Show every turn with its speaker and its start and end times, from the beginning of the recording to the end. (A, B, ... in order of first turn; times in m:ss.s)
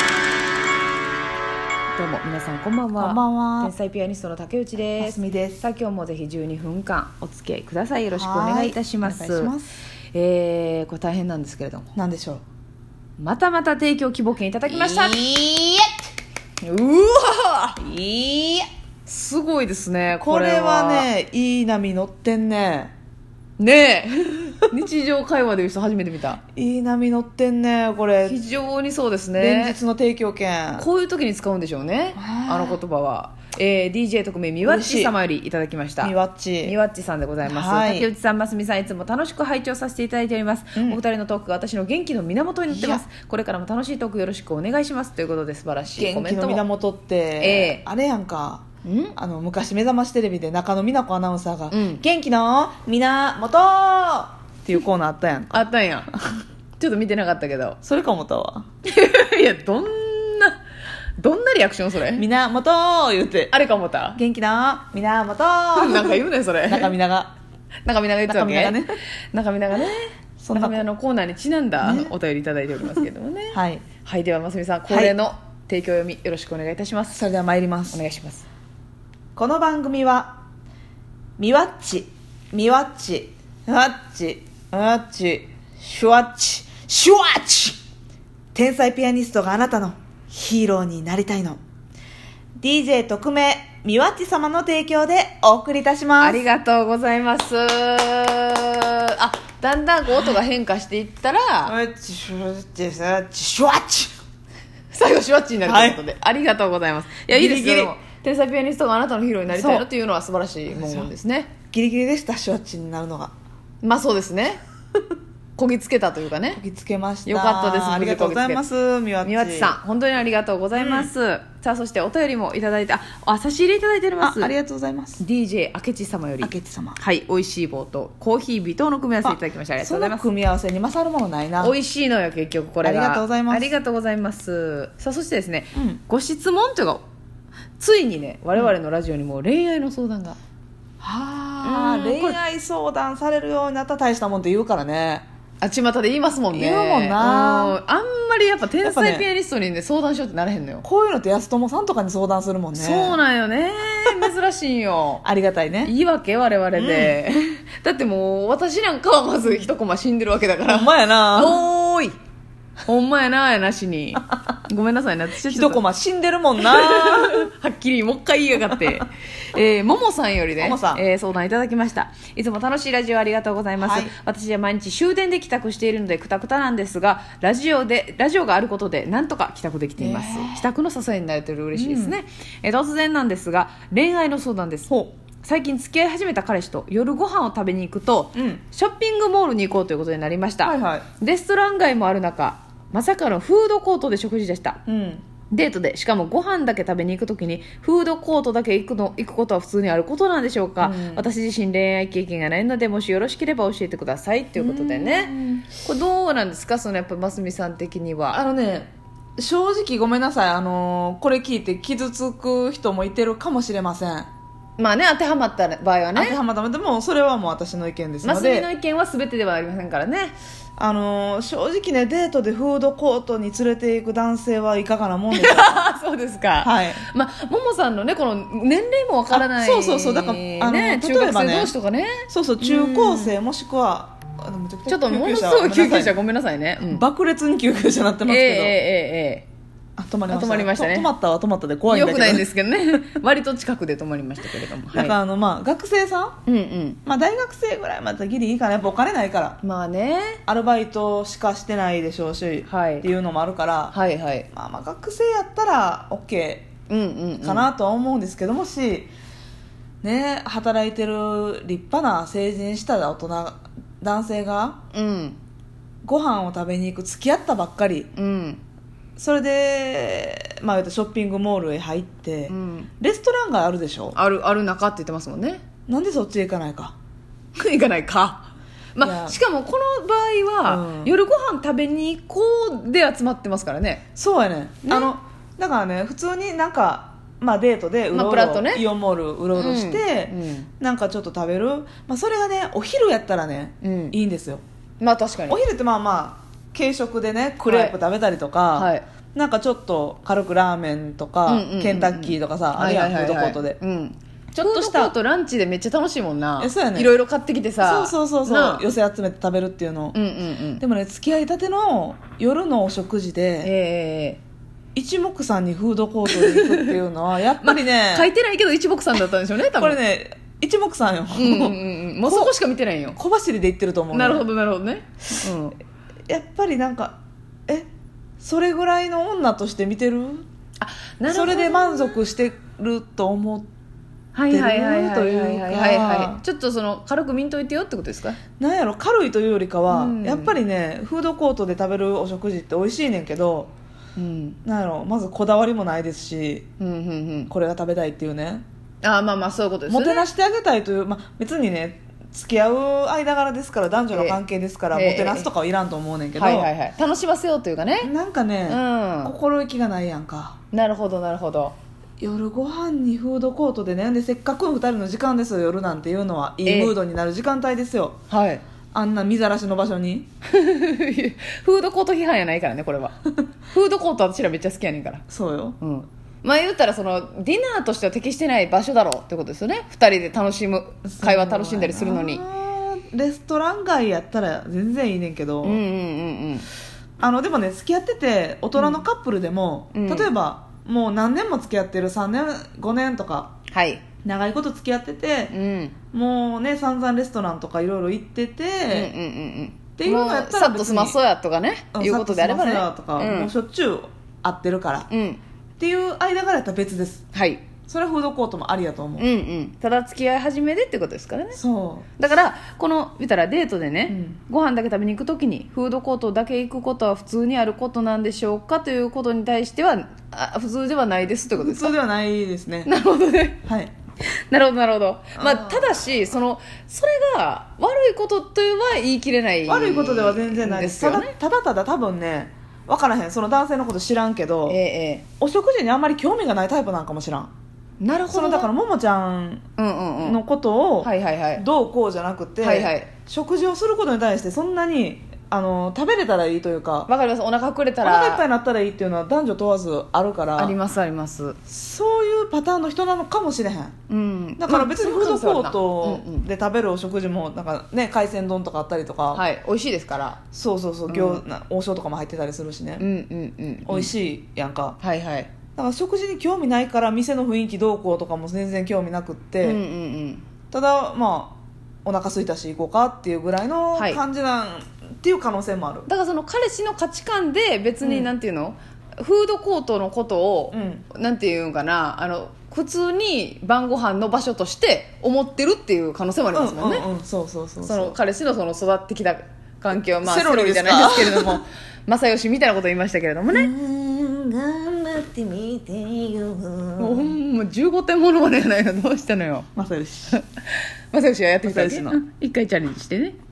0:01.9-0:09.5 A
0:03.0-0:03.7 B
0:05.0-0:05.6 B
0:08.2-0:09.7 B
0:10.1-0:11.9 A
0:12.0-0:12.4 B
0:13.2-0:15.2 A
0:14.7-0:15.9 B
0:16.6-0:17.9 A
0:17.8-0:18.6 B
0:19.1-0:21.1 A
0:20.2-0:22.9 B
0:23.6-0:26.4 A
0:26.6-0:28.4 B
0:28.2-0:29.8 A
0:29.4-0:30.9 B
0:30.8-0:46.6 A
0:32.2-0:32.8 B
0:34.6-0:35.1 B
0:36.0-0:36.8 B
0:37.4-0:38.1 B
0:40.8-0:41.0 B
0:42.7-0:43.0 B
0:45.9-0:48.6 B
0:47.4-0:47.8 A
0:48.8-0:49.2 A
0:49.2-0:56.2 B
0:51.7-0:52.0 A
0:55.5-0:56.1 A
0:56.8-0:57.8 A
0:57.8-0:58.7 B
0:58.8-1:00.6 A
1:01.2-1:02.2 A
1:02.1-1:03.5 B
1:03.5-1:04.2 A
1:04.2-1:07.3 B
1:05.8-1:07.0 A
1:07.9-1:08.8 A
1:08.3-1:09.0 B
1:09.3-1:17.2 A
1:10.4-1:10.8 B
1:11.8-1:12.1 B
1:13.5-1:13.8 B
1:14.9-1:15.2 B
1:17.1-1:18.0 B
1:17.9-1:18.4 A
1:19.4-1:20.4 B
1:21.4-1:27.8 B
1:28.5-1:31.6 B
1:32.6-1:36.4 B
1:36.2-1:41.7 A
1:41.6-1:44.1 B
1:44.9-1:51.5 A
1:45.6-1:46.0 B
1:47.3-1:47.9 B
1:49.5-1:49.9 B
1:50.7-1:51.1 B
1:51.7-1:53.3 B
1:53.8-1:54.6 A
1:55.6-1:56.6 A
1:56.5-1:59.8 B
1:57.3-1:58.6 A
1:59.2-2:04.5 A
2:00.8-2:01.1 B
2:04.2-2:05.2 B
2:05.2-2:10.3 A
2:06.4-2:07.0 B
2:09.2-2:11.8 B
2:11.6-2:17.0 A
2:12.8-2:13.7 B
2:15.8-2:16.0 B
2:17.8-2:20.4 A
2:21.0-2:25.2 B
2:21.6-2:22.4 A
2:25.6-2:30.8 A
2:26.5-2:27.8 B
2:28.8-2:29.3 B
2:30.8-2:33.2 B
2:32.8-2:35.2 A
2:35.2-2:35.9 B
2:35.8-2:42.2 A
2:36.7-2:37.2 B
2:40.6-2:41.6 B
2:42.9-2:45.8 A
2:45.4-2:47.5 B
2:46.6-3:04.9 A
2:48.8-2:49.0 B
2:50.6-2:51.0 B
2:53.8-2:54.1 B
3:00.0-3:00.7 B
3:01.7-3:02.2 B
3:05.4-3:14.8 A
3:08.3-3:08.6 B
3:10.6-3:11.1 B
3:14.9-3:15.2 B
3:15.5-3:28.4 A
3:20.8-3:21.3 B
3:24.6-3:25.6 B
3:28.3-3:34.3 B
3:34.8-3:36.4 A
3:36.1-3:38.7 B
3:38.2-3:40.3 A
3:40.8-3:45.9 B
3:45.3-3:53.3 A
3:46.6-3:47.0 B
3:49.3-3:51.7 B
3:52.3-3:56.2 B
3:54.9-3:57.0 A
3:56.8-3:58.8 B
3:58.3-3:59.5 A
4:00.0-4:02.5 B
4:00.3-4:01.1 A
4:01.9-4:05.2 A
4:04.9-4:06.4 B
4:06.5-4:07.0 A
4:07.0-4:09.6 B
4:09.6-4:10.4 A
4:10.5-4:14.0 B
4:12.7-4:13.1 A
4:13.9-4:14.5 A
4:14.5-4:16.7 B
4:16.9-4:17.7 A
4:17.4-4:19.1 B
4:20.0-4:24.8 B
4:24.9-4:25.4 A
4:26.0-4:28.1 B
4:28.1-4:28.6 A
4:29.2-4:34.2 B
4:32.5-4:32.9 A
4:34.1-4:35.6 A
4:35.9-4:37.0 B
4:37.6-4:44.0 A
4:39.0-4:39.4 B
4:40.7-4:41.2 B
4:44.2-4:54.6 B
4:44.8-4:45.1 A
4:48.1-4:48.8 A
4:49.6-4:50.7 A
4:53.8-4:54.2 A
4:55.0-4:55.6 A
4:55.5-5:03.8 B
4:57.6-4:58.0 A
4:58.8-4:59.0 A
5:01.5-5:08.8 A
5:04.6-5:05.2 B
5:06.6-5:07.1 B
5:07.8-5:10.2 B
5:10.1-5:10.8 A
5:10.8-5:13.7 B
5:13.6-5:14.4 A
5:15.0-5:18.3 B
5:16.3-5:17.0 A
5:17.6-5:20.0 A
5:19.8-5:22.5 B
5:21.4-5:23.2 A
5:23.2-5:24.5 B
5:24.1-5:25.8 A
5:26.3-5:27.9 B
5:28.4-5:30.4 B
5:30.8-5:32.2 A
5:31.3-5:33.7 B
5:34.4-5:38.4 A
5:34.5-5:36.4 B
5:38.6-5:43.7 B
5:39.9-5:40.6 A
5:44.2-5:44.6 A
5:44.6-5:46.7 B
5:46.8-5:47.5 A
5:47.5-5:48.6 B
5:49.0-5:50.2 A
5:49.9-5:56.7 B
5:54.1-5:55.5 A
5:56.4-5:58.1 A
5:58.0-6:00.6 B
5:58.7-5:59.3 A
6:00.7-6:01.8 A
6:02.2-6:08.2 B
6:06.7-6:06.9 A
6:08.3-6:08.6 A
6:08.9-6:10.3 B
6:10.5-6:13.2 A
6:13.7-6:15.2 A
6:15.3-6:15.8 B
6:15.8-6:22.4 A
6:21.1-6:25.8 B
6:25.6-6:26.7 A
6:27.2-6:33.5 B
6:28.8-6:29.0 A
6:29.9-6:30.3 A
6:33.7-6:34.0 A
6:34.2-6:35.5 B
6:35.5-6:36.0 A
6:36.1-6:39.1 B
6:38.9-6:43.5 A
6:40.0-6:41.2 B
6:41.9-6:45.1 B
6:45.1-6:45.4 A
6:45.8-6:47.2 B
6:47.3-6:47.6 A
6:47.9-6:49.3 B
6:49.2-6:51.6 A
6:51.5-6:52.1 B
6:52.2-7:02.0 A
6:54.1-6:54.4 B
7:01.6-7:02.9 B
7:02.8-7:03.6 A
7:03.6-7:03.9 B
7:04.3-7:11.3 A
7:05.4-7:06.0 B
7:09.7-7:14.8 B
7:14.7-7:15.2 A
7:15.4-7:17.5 B
7:18.0-7:18.7 A
7:18.3-7:19.6 B
7:19.8-7:20.4 A
7:20.2-7:27.1 B
7:21.0-7:21.6 A
7:22.6-7:23.1 A
7:27.1-7:28.4 A
7:28.0-7:30.8 B
7:30.6-7:31.6 A
7:31.7-7:33.9 B
7:34.1-7:36.5 A
7:34.6-7:39.4 B
7:39.3-7:40.4 A
7:40.5-7:43.1 B
7:41.1-7:41.4 A
7:43.0-7:44.1 A
7:43.9-7:45.0 B
7:45.0-7:45.5 A
7:45.8-7:49.8 B
7:49.6-7:50.4 A
7:50.7-7:56.1 B
7:54.0-7:54.2 A
7:56.1-8:07.1 A
7:58.0-7:58.3 B
8:00.7-8:01.0 B
8:06.5-8:08.2 B
8:07.8-8:13.7 A
8:10.2-8:11.6 B
8:13.5-8:17.4 B
8:17.0-8:19.7 A
8:19.8-8:20.4 B
8:21.1-8:23.4 A
8:21.6-8:22.2 B